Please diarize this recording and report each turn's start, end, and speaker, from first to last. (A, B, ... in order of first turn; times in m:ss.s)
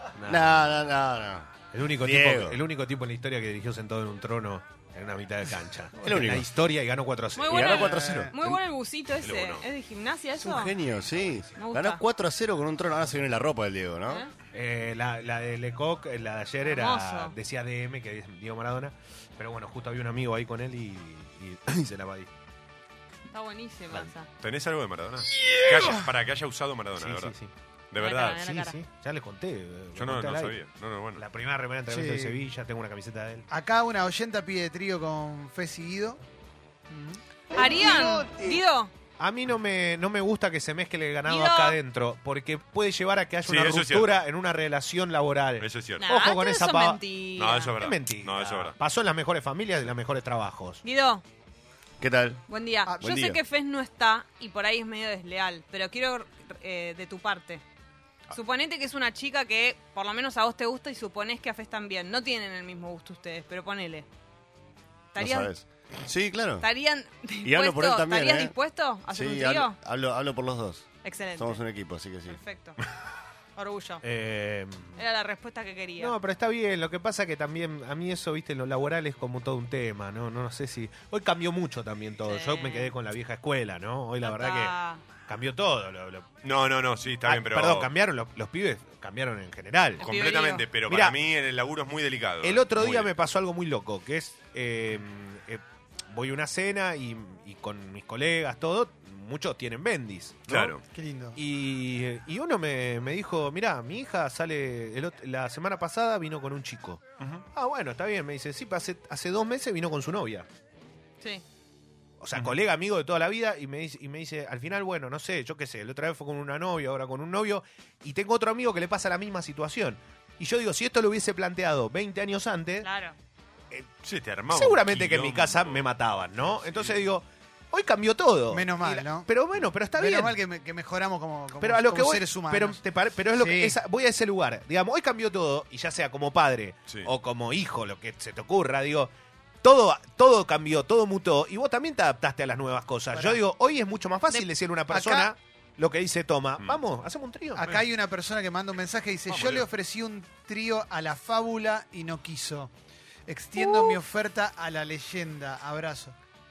0:00.2-0:00.8 A
0:00.2-0:02.6 B
0:01.7-0:08.2 A
0:06.0-0:06.5 B
0:07.4-0:10.7 C
0:07.5-0:08.6 B
0:07.8-0:08.3 D
0:09.2-0:09.6 E
0:10.4-0:14.2 B
0:11.6-0:12.0 C
0:14.5-0:22.3 A
0:16.6-0:17.3 C
0:23.3-0:24.3 C
0:24.4-0:27.3 E
0:25.5-0:26.0 D
0:27.0-0:27.5 A
0:27.9-0:28.5 E
0:28.0-0:28.8 C
0:28.2-0:30.6 A
0:29.9-0:31.2 E
0:31.2-0:33.5 A
0:31.9-0:32.4 D
0:33.5-0:36.2 D
0:36.9-0:38.3 D
0:37.5-0:38.9 C
0:39.2-0:47.0 A
0:41.3-0:41.8 C
0:43.4-0:44.2 E
0:45.6-0:46.1 E
0:46.0-0:47.7 C
0:47.4-0:48.8 E
0:47.8-0:50.8 A
0:50.8-0:51.2 C
0:52.0-0:52.4 B
0:52.5-0:57.6 C
0:53.0-0:53.4 B
0:58.3-1:04.0 C
1:05.1-1:05.5 C
1:05.2-1:06.6 B
1:06.6-1:09.8 C
1:07.4-1:08.5 B
1:09.1-1:12.4 B
1:11.0-1:11.6 C
1:12.2-1:12.8 C
1:13.6-1:14.0 C
1:14.0-1:15.0 A
1:15.0-1:16.1 C
1:16.0-1:26.3 A
1:22.3-1:22.9 C
1:24.2-1:25.0 C
1:26.4-1:27.9 E
1:27.2-1:30.0 A
1:30.0-1:30.6 C
1:30.0-1:33.1 E
1:30.9-1:31.2 A
1:32.4-1:40.7 A
1:40.5-1:40.8 E
1:40.9-1:41.4 D
1:41.4-1:50.5 A
1:52.2-2:02.9 A
2:02.8-2:03.1 C
2:04.0-2:05.8 E
2:04.5-2:10.4 A
2:06.7-2:07.0 E
2:08.5-2:09.3 D
2:09.9-2:12.8 D
2:11.6-2:19.1 A
2:13.3-2:13.7 D
2:19.6-2:27.8 A
2:23.1-2:23.4 D
2:24.9-2:25.3 D
2:27.5-2:32.7 D
2:29.3-2:29.7 E
2:33.3-2:36.1 D